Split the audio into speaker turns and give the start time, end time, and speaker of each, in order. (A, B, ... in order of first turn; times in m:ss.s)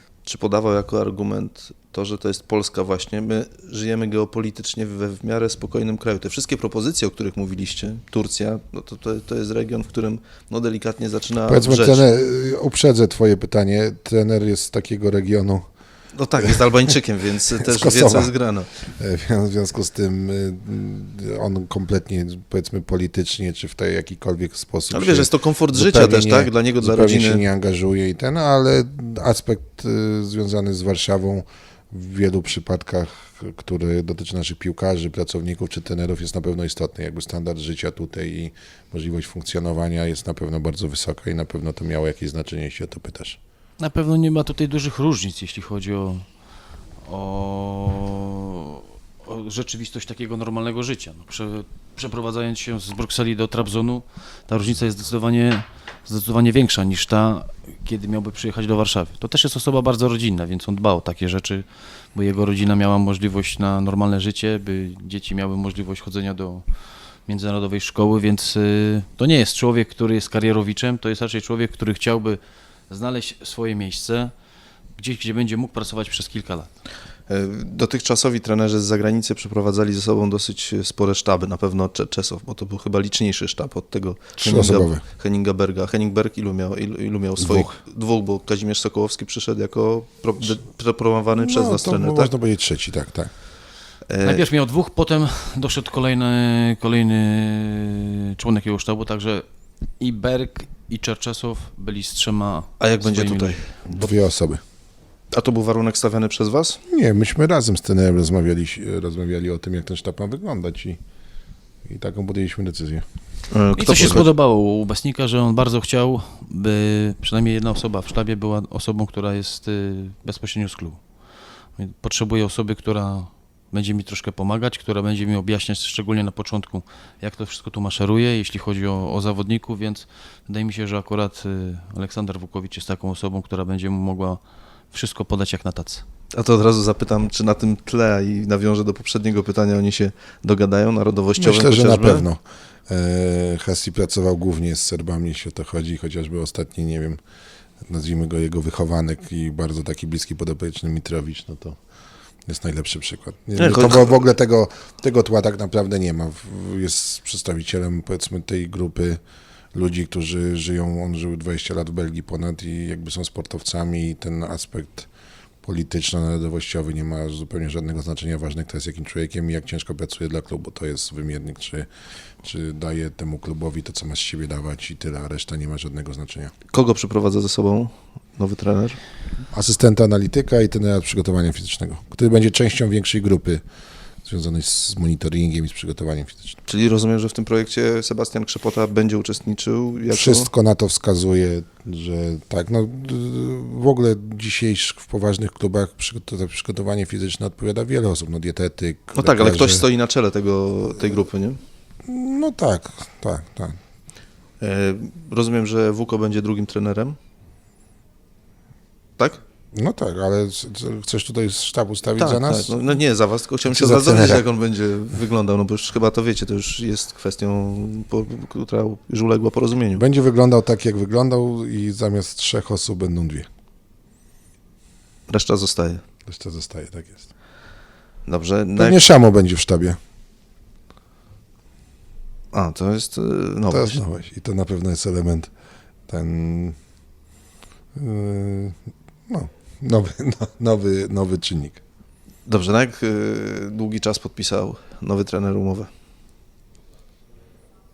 0:00.2-0:12.0 A
0:11.5-0:15.7 B
0:16.2-0:18.7 A
0:17.6-0:43.4 B
0:24.9-0:27.4 A
0:43.8-0:46.2 C
0:47.0-1:06.6 C
1:07.3-1:14.3 C
1:15.0-1:16.7 C
1:17.3-1:32.3 A
1:24.4-1:25.0 B
1:27.4-1:27.8 B
1:31.3-1:33.3 B
1:34.1-1:34.4 A
1:34.2-1:39.4 C
1:40.0-1:43.8 C
1:42.8-1:44.1 A
1:43.9-1:44.6 B
1:45.3-1:46.8 A
1:46.9-1:51.0 B
1:51.8-1:53.0 B
1:53.5-1:54.3 A
1:53.8-2:01.0 C
2:01.8-2:16.0 C
2:16.3-2:22.2 A
2:21.4-2:27.2 B
2:27.8-2:31.8 B
2:32.4-2:39.2 B
2:33.6-2:34.1 A
2:39.7-2:45.1 B
2:45.6-2:51.9 B
2:52.4-2:56.5 B
2:56.7-2:59.0 A
2:59.5-3:03.6 B
3:04.2-3:06.6 B
3:06.6-3:10.5 A
3:10.1-3:19.8 B
3:19.1-3:21.6 A
3:22.0-3:23.8 B
3:24.6-3:27.2 A
3:29.7-3:32.8 B
3:32.2-3:40.0 A
3:33.7-3:34.4 B
3:40.0-3:43.5 B
3:45.3-3:46.0 A
3:46.2-3:47.2 B
3:48.3-3:49.0 A
3:48.8-3:50.0 B
3:52.5-3:54.0 A
3:53.7-3:55.5 B
3:56.1-3:56.8 B
3:57.9-4:01.8 B
4:02.4-4:05.9 A